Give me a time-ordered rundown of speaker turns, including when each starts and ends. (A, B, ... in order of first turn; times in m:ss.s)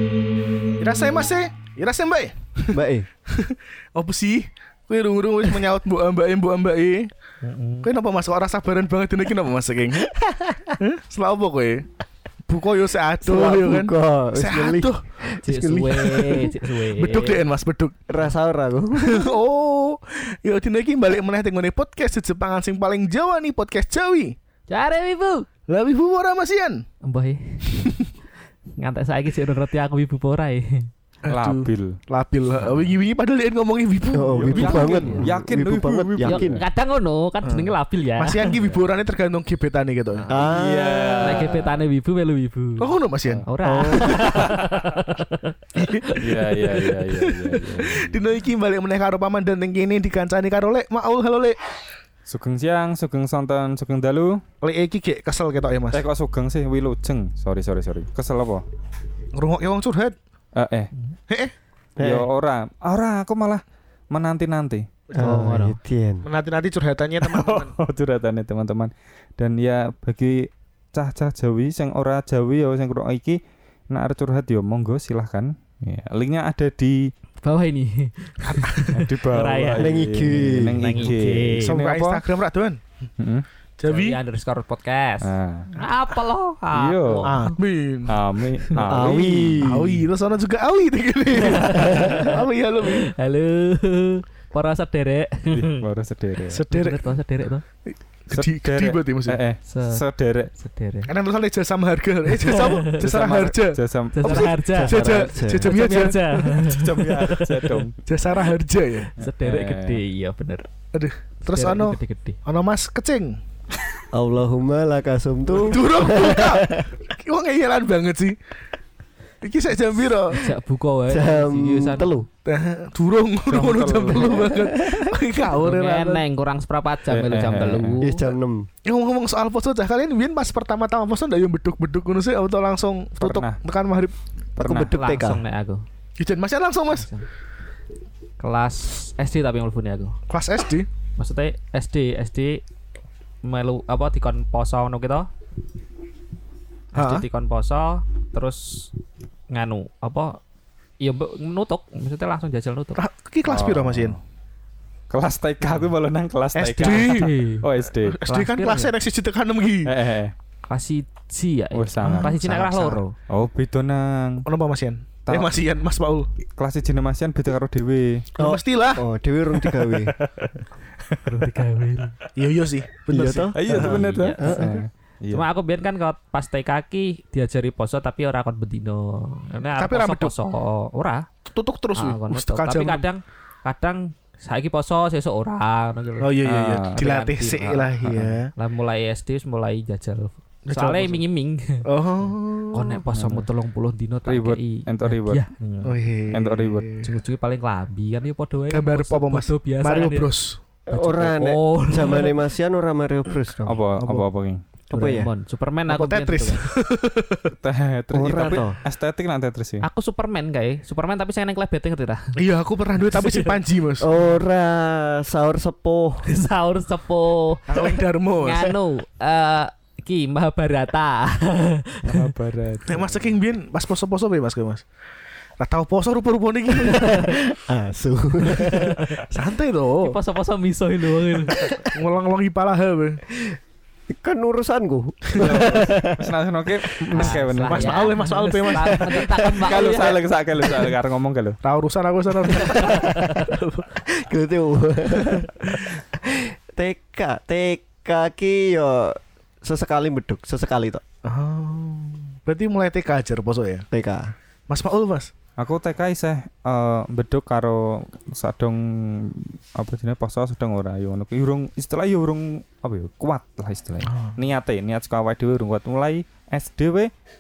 0:00.8-0:07.1 A
0:02.7-0:03.1 B
0:07.4-0:07.9 C
0:07.8-0:10.2 A
0:10.2-0:10.8 B
0:10.8-0:11.9 A
0:12.5-0:18.0 A
0:13.2-0:16.1 B
0:15.4-0:17.4 C
0:18.1-0:19.3 B
0:19.0-0:24.4 A
0:24.7-0:25.5 C
0:25.7-0:26.8 A
0:27.0-0:28.0 C
0:28.8-0:30.9 C
0:31.2-0:35.2 A
0:31.3-0:32.0 D
0:34.1-0:36.6 B
0:34.3-0:36.6 D
0:34.8-0:35.2 C
0:36.2-0:38.4 C
0:37.4-0:40.3 A
0:38.5-0:38.9 D
0:40.3-0:41.5 B
0:40.3-0:41.8 D
0:41.2-0:42.9 C
0:42.8-0:43.4 A
0:43.5-0:46.8 C
0:43.6-0:44.5 B
0:44.2-0:44.6 D
0:45.8-0:46.6 A
0:46.2-0:48.2 D
0:47.5-0:51.6 A
0:52.3-0:54.4 D
0:54.6-0:56.0 A
0:55.9-0:58.6 D
0:59.4-1:00.2 A
1:00.6-1:00.9 D
1:02.0-1:02.3 B
1:02.0-1:04.9 D
1:05.1-1:05.4 A
1:05.2-1:06.3 B
1:05.2-1:05.8 C
1:06.2-1:07.7 A
1:07.2-1:17.1 D
1:17.4-1:20.0 C
1:18.4-1:18.8 A
1:18.9-1:22.2 D
1:19.8-1:20.8 B
1:20.8-1:21.8 C
1:21.6-1:22.8 A
1:23.2-1:23.4 D
1:23.8-1:24.2 A
1:23.8-1:27.6 C
1:25.2-1:25.7 D
1:26.7-1:27.4 D
1:27.2-1:28.2 A
1:28.1-1:29.8 D
1:28.8-1:30.0 B
1:29.6-1:33.1 A
1:31.4-1:35.8 C
1:31.7-1:32.2 B
1:35.5-1:36.6 D
1:36.5-1:37.0 A
1:36.7-1:37.6 C
1:37.9-1:39.4 A
1:38.3-1:40.5 D
1:39.7-1:40.0 C
1:40.6-1:41.1 C
1:41.1-1:46.5 A
1:42.3-1:43.0 C
1:42.9-1:44.6 D
1:44.1-1:47.8 C
1:44.7-1:45.7 B
1:46.5-1:48.0 D
1:48.1-1:49.1 A
1:49.2-1:50.7 C
1:49.2-1:50.0 D
1:50.9-1:53.4 A
1:51.4-1:52.4 C
1:54.1-1:57.0 B
1:55.6-1:58.4 A
1:59.4-2:00.5 A
2:00.3-2:02.1 C
2:01.1-2:02.3 B
2:02.5-2:06.2 A
2:03.5-2:04.5 D
2:04.2-2:05.2 B
2:05.6-2:08.3 C
2:07.1-2:08.0 D
2:08.0-2:08.7 B
2:08.8-2:14.2 A
2:13.2-2:13.6 D
2:14.6-2:15.4 B
2:14.6-2:14.9 D
2:14.9-2:15.8 C
2:16.2-2:17.1 A
2:17.0-2:17.3 C
2:18.4-2:20.2 C
2:20.3-2:20.9 A
2:21.2-2:22.6 C
2:23.4-2:25.3 C
2:26.9-2:28.9 C
2:27.0-2:27.2 A
2:29.5-2:30.4 C
2:31.0-2:33.0 C
2:33.0-2:34.2 A
2:33.5-2:34.2 D
2:35.1-2:38.2 D
2:36.6-2:37.4 A
2:36.8-2:37.7 C
2:38.0-2:39.9 A
2:38.3-2:38.9 C
2:39.8-2:40.3 D
2:40.7-2:43.2 C
2:41.7-2:42.4 D
2:42.0-2:43.0 A
2:43.3-2:44.5 D
2:44.5-2:46.3 A
2:45.3-2:45.5 D
2:46.6-2:48.3 D
2:48.4-2:49.0 A
2:48.4-2:50.1 B
2:49.9-2:51.5 D
2:51.2-2:52.2 C
2:52.4-2:54.1 A
2:53.1-2:54.7 B
2:53.6-2:55.4 D
2:54.0-3:01.3 C
2:59.8-3:00.3 A
3:01.5-3:03.1 A
3:02.0-3:06.4 C
3:06.2-3:08.5 A
3:06.4-3:07.0 D
3:07.0-3:08.0 C
3:08.0-3:08.4 D
3:08.6-3:11.9 C
3:10.7-3:11.2 A
3:11.8-3:13.0 A
3:12.7-3:16.0 C
3:13.1-3:13.5 D
3:14.3-3:15.4 D
3:15.8-3:17.1 A
3:16.3-3:16.9 D
3:17.0-3:20.3 C
3:18.7-3:20.6 A
3:20.9-3:23.8 B
3:20.9-3:22.3 C
3:23.7-3:24.6 D
3:24.0-3:24.3 A
3:24.9-3:25.3 B
3:24.9-3:26.7 C
3:25.9-3:27.5 A
3:27.5-3:29.8 D
3:28.1-3:28.8 B
3:29.8-3:32.4 C
3:32.4-3:34.1 A
3:33.1-3:33.6 C
3:34.0-3:36.2 B
3:36.2-3:42.3 C
3:37.7-3:38.8 A
3:42.1-3:43.3 D
3:42.9-3:44.8 A
3:45.6-3:47.4 A
3:46.9-3:49.0 B
3:48.5-3:50.2 A
3:48.8-3:49.2 C
3:50.0-3:51.6 C
3:51.4-3:53.2 A
3:54.1-3:56.3 B
3:55.4-3:58.2 D
3:57.1-3:59.4 A
3:57.2-4:00.2 C
3:58.9-3:59.4 B
3:59.6-4:01.6 D
4:01.6-4:03.9 A
4:02.6-4:03.5 C
4:02.7-4:03.1 B
4:04.1-4:11.0 B
4:05.2-4:05.5 A
4:11.2-4:13.9 A
4:13.9-4:14.3 B
4:14.7-4:15.3 A
4:15.6-4:27.1 D
4:24.0-4:24.4 A